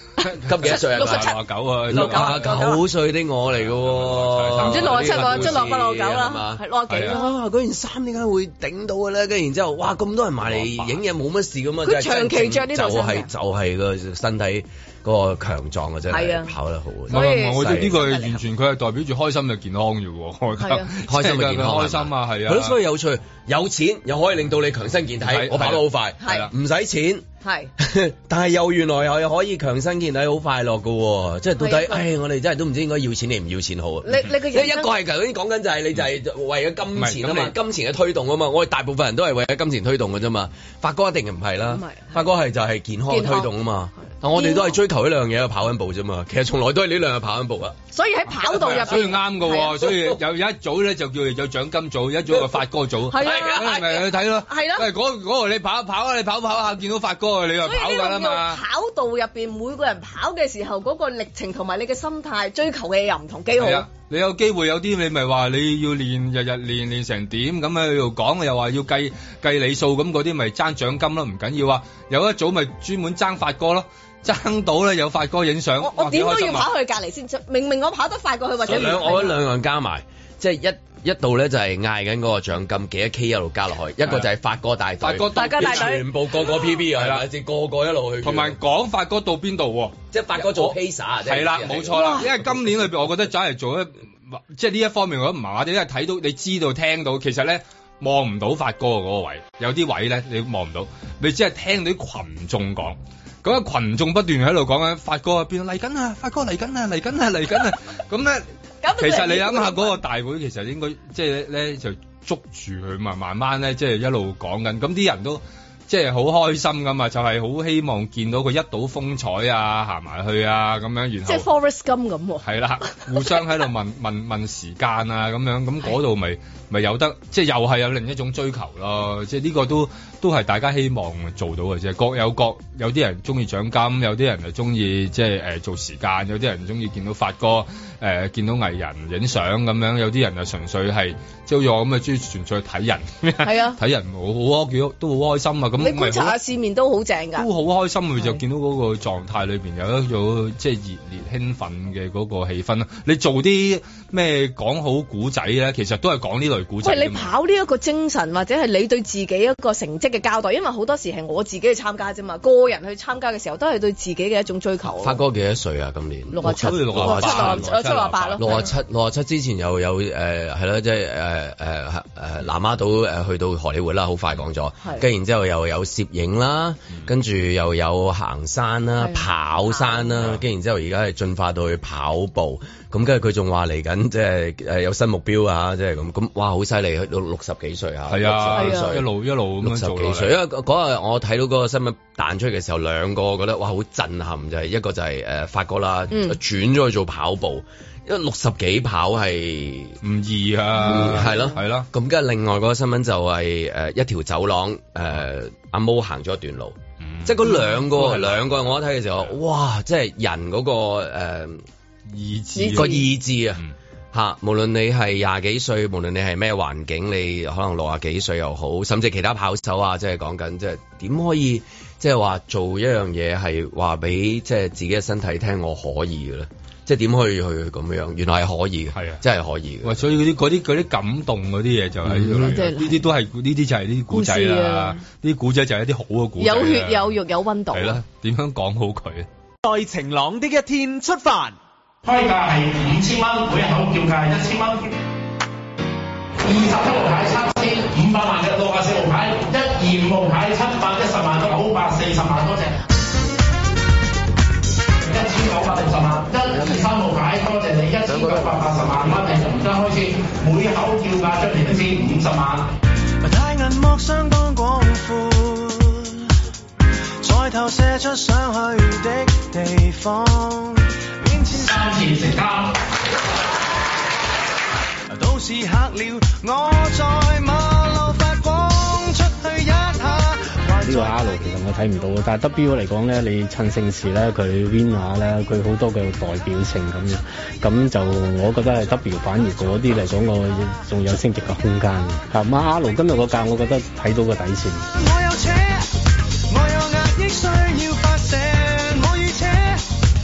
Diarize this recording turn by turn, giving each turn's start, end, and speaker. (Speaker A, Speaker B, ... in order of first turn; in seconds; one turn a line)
Speaker A: 0.2-2.7
Speaker B: 0.4-18.0
Speaker C: 0.6-2.8
Speaker A: 3.6-5.7
Speaker C: 4.6-7.3
Speaker A: 6.9-7.2
Speaker A: 10.4-11.0
Speaker C: 11.8-13.3
Speaker C: 16.1-16.5
Speaker C: 17.1-18.4
Speaker A: 17.1-22.8
Speaker C: 20.6-20.9
Speaker B: 21.1-27.2
Speaker A: 25.2-26.5
Speaker C: 26.2-26.5
Speaker C: 27.4-27.7
Speaker B: 27.8-47.8
Speaker C: 31.6-32.0
Speaker C: 34.0-34.9
Speaker A: 36.9-37.5
Speaker C: 41.7-42.1
Speaker C: 43.1-43.5
Speaker C: 44.3-44.8
Speaker C: 47.9-49.9
Speaker A: 48.4-58.6
Speaker B: 52.3-52.6
Speaker C: 53.1-54.9
Speaker B: 53.1-53.9
Speaker C: 57.6-63.9
Speaker A: 63.6-76.7
Speaker C: 75.8-79.4
Speaker B: 78.6-88.6
Speaker A: 85.0-86.0
Speaker C: 85.3-86.1
Speaker A: 86.9-87.2
Speaker A: 88.2-108.5
Speaker B: 90.1-92.3
Speaker C: 91.9-92.3
Speaker C: 108.8-110.0
Speaker A: 109.0-121.5
Speaker C: 121.2-122.4
Speaker A: 122.4-146.4
Speaker C: 143.4-143.8
Speaker C: 145.8-147.5
Speaker A: 147.4-157.3
Speaker C: 156.8-165.2
Speaker B: 165.0-167.7
Speaker C: 166.3-168.7
Speaker A: 166.4-168.7
Speaker B: 168.4-189.1
Speaker C: 179.0-180.1
Speaker A: 188.1-190.3
Speaker C: 188.5-188.9
Speaker B: 189.6-200.0
Speaker C: 196.1-196.4
Speaker A: 200.0-201.9
Speaker B: 200.8-211.6
Speaker C: 201.0-201.4
Speaker A: 207.0-208.5
Speaker A: 212.1-213.0
Speaker C: 212.6-213.0
Speaker B: 212.7-213.6
Speaker B: 214.1-230.0
Speaker A: 228.9-229.2
Speaker A: 229.8-237.2
Speaker B: 232.1-232.5
Speaker C: 232.4-233.0
Speaker C: 234.1-235.0
Speaker C: 236.4-238.0
Speaker A: 237.7-239.3
Speaker D: 239.6-241.6
Speaker E: 242.0-244.9
Speaker E: 246.4-252.8
Speaker E: 255.0-262.7
Speaker F: 263.2-266.3
Speaker F: 267.2-272.0
Speaker E: 271.7-272.7
Speaker F: 275.1-281.2
Speaker G: 280.8-294.8
Speaker F: 294.9-295.9
Speaker F: 296.5-299.8